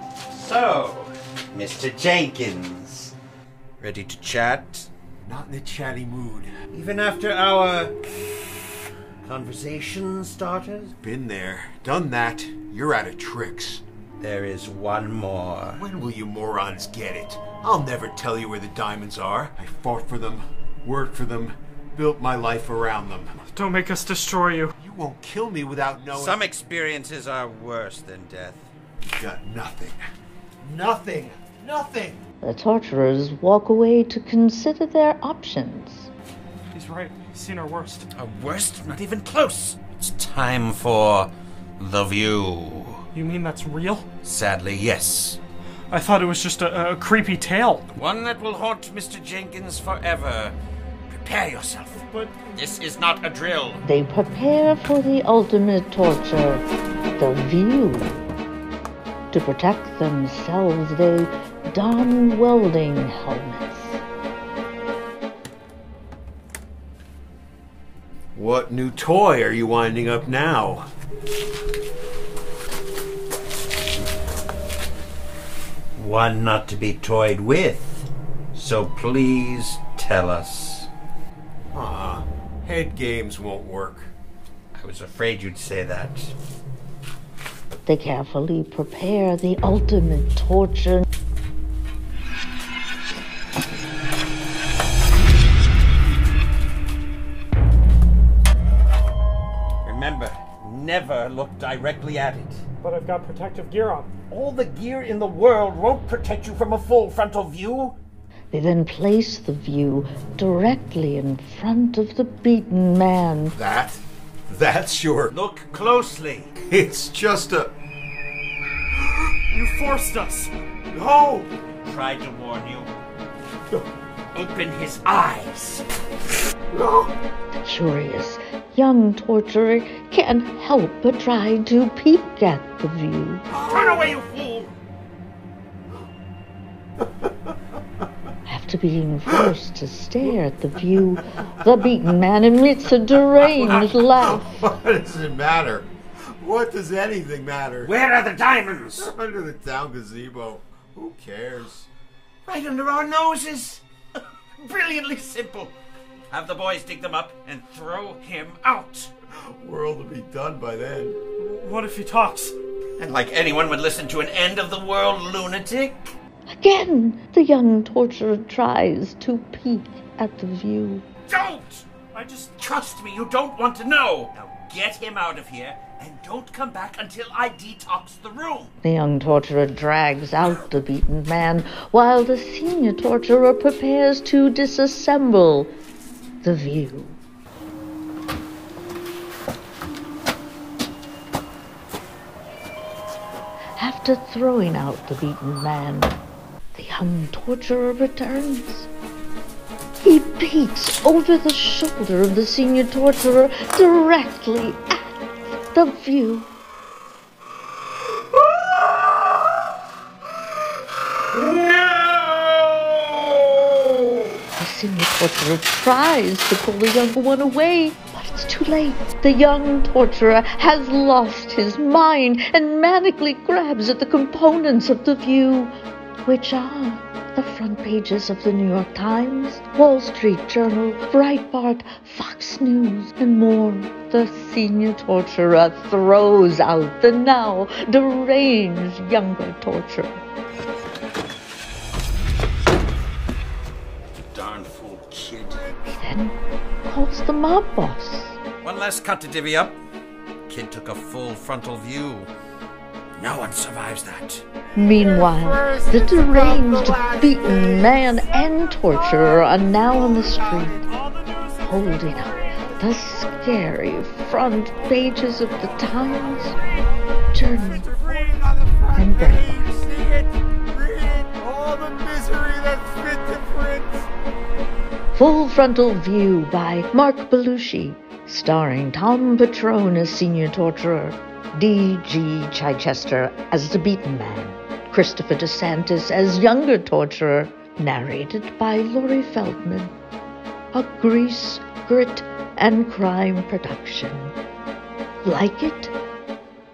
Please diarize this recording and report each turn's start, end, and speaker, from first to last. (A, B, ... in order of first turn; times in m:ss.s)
0:00.3-0:03.1 A
0:03.8-0:04.9 A
0:05.2-0:06.5 B
0:06.7-0:07.9 A
0:09.2-0:10.9 A
0:11.0-0:13.8 B
0:14.2-0:15.8 A
0:15.8-0:23.4 B
0:23.5-0:24.7 C
0:24.8-0:26.5 B
0:26.1-0:28.7 A
0:29.0-0:30.0 B
0:30.6-0:32.2 B
0:32.4-0:36.1 D
0:36.7-0:38.1 C
0:38.1-0:43.0 A
0:43.1-0:44.1 C
0:44.2-0:45.4 A
0:45.9-0:47.9 C
0:47.9-0:50.6 A
0:51.1-0:52.0 A
0:51.9-0:52.5 C
0:52.5-0:53.8 A
0:53.8-0:56.6 D
0:57.2-0:58.2 D
0:59.3-1:04.0 D
1:08.3-1:10.9 B
1:16.0-1:20.9 A
1:21.7-1:24.1 B
1:24.7-1:26.3 A
1:27.8-1:31.0 D
1:39.8-1:42.6 A
1:42.8-1:44.2 C
1:44.2-1:48.0 A
1:48.5-1:53.6 D
1:53.5-1:55.3 B
1:55.3-1:56.5 A
1:56.6-1:57.7 B
1:59.5-2:00.5 C
2:00.9-2:01.5 B
2:01.8-2:02.9 A
2:04.3-2:05.8 A
2:06.7-2:07.1 B
2:07.6-2:13.5 D
2:13.5-2:14.1 B
2:13.6-2:14.7 A
2:18.4-2:24.6 D
2:23.4-2:27.9 B
2:27.8-2:29.1 A
2:29.0-2:31.9 B
2:32.4-2:33.8 A
2:34.6-2:35.7 A
2:36.3-2:39.1 A
2:39.5-2:41.2 B
2:41.4-2:42.6 C
2:43.0-2:46.1 A
2:46.5-2:51.0 D
2:51.3-2:51.8 A
2:52.1-2:52.5 C
2:52.5-2:58.7 A
2:58.8-3:05.7 D
3:06.4-3:07.2 D
3:13.8-3:16.2 D
3:16.7-3:18.9 D
3:20.0-3:26.5 D
3:34.6-3:45.7 D
3:46.2-4:00.2 D
4:04.3-4:05.6 A
4:05.9-4:08.4 D
4:08.6-4:09.8 A
4:10.5-4:12.3 A
4:13.2-4:14.4 A
4:14.8-4:20.9 D
4:14.8-4:20.9 B
4:20.9-4:22.8 C
4:21.6-4:26.6 D
4:27.3-4:27.9 D
4:27.6-4:34.1 B
4:28.9-4:29.6 D
4:35.1-4:49.9 D
4:50.7-4:54.3 D
4:55.2-4:55.9 D